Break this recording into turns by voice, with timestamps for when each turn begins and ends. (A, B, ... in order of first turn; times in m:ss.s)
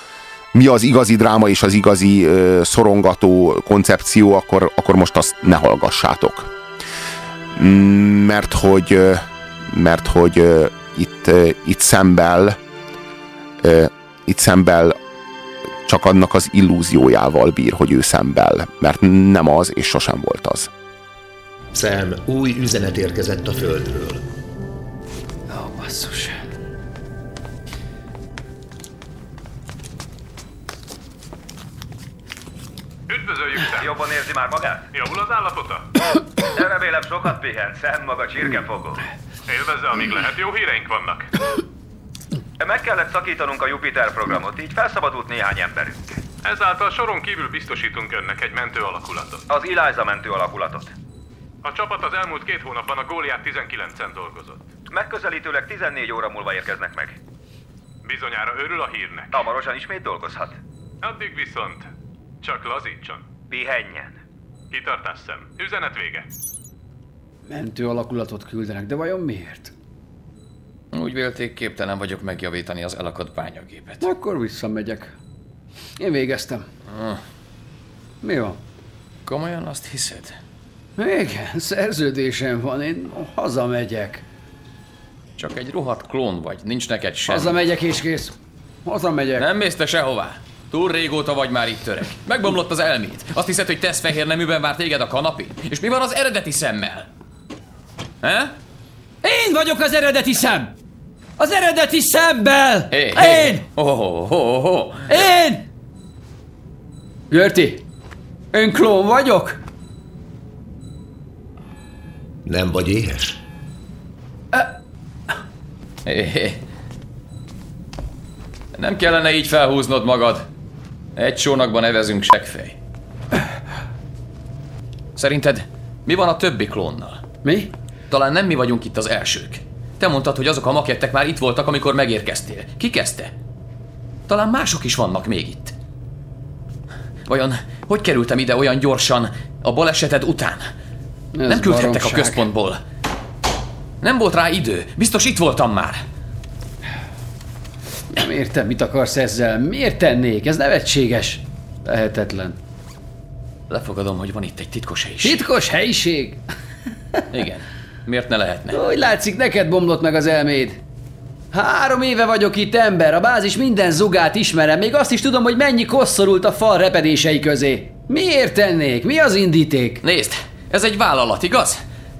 0:00.5-0:06.5 A
0:07.6-0:12.6 A
0:13.6-0:15.0 A
0:15.8-0:20.7 A
0:21.7-0:24.2 B
0:25.5-0:26.4 C
0:33.1-0:33.9 D
0:33.7-0:34.9 E
0:34.9-0:35.9 D
0:36.5-0:39.0 E
0:39.5-0:41.3 D
0:42.6-0:46.2 E
0:46.4-0:49.4 D
0:49.5-0:50.9 E
0:51.6-0:54.6 D
0:54.9-0:57.2 E
0:58.0-0:59.4 D
0:59.3-1:00.6 E
1:01.0-1:01.9 D
1:02.4-1:03.2 D
1:03.5-1:04.2 E
1:04.7-1:06.3 D
1:07.5-1:09.7 C
1:10.9-1:14.0 F
1:14.0-1:15.1 C
1:16.0-1:16.6 C
1:16.9-1:17.2 F
1:18.2-1:18.6 C
1:19.3-1:20.4 F
1:21.0-1:24.2 C
1:25.4-1:27.6 F
1:27.3-1:28.3 C
1:28.8-1:29.5 C
1:29.4-1:37.1 F
1:38.2-1:38.5 F
1:39.2-1:40.7 C
1:41.4-1:43.6 C
1:42.9-1:45.2 F
1:45.1-1:45.6 C
1:47.3-1:47.8 C
1:48.5-1:49.6 C
1:52.4-1:53.4 B
1:56.0-1:56.6 F
1:58.7-2:00.5 F
2:01.2-2:02.8 F
2:05.2-2:07.2 F
2:07.4-2:07.7 C
2:08.1-2:13.3 F
2:14.3-2:15.7 F
2:17.2-2:20.7 F
2:21.3-2:22.4 C
2:21.5-2:22.8 F
2:24.0-2:26.0 F
2:28.1-2:32.6 C
2:33.7-2:35.4 F
2:35.2-2:36.4 C
2:37.3-2:38.8 F
2:38.7-2:40.8 C
2:41.5-2:50.0 C
2:50.0-2:51.8 F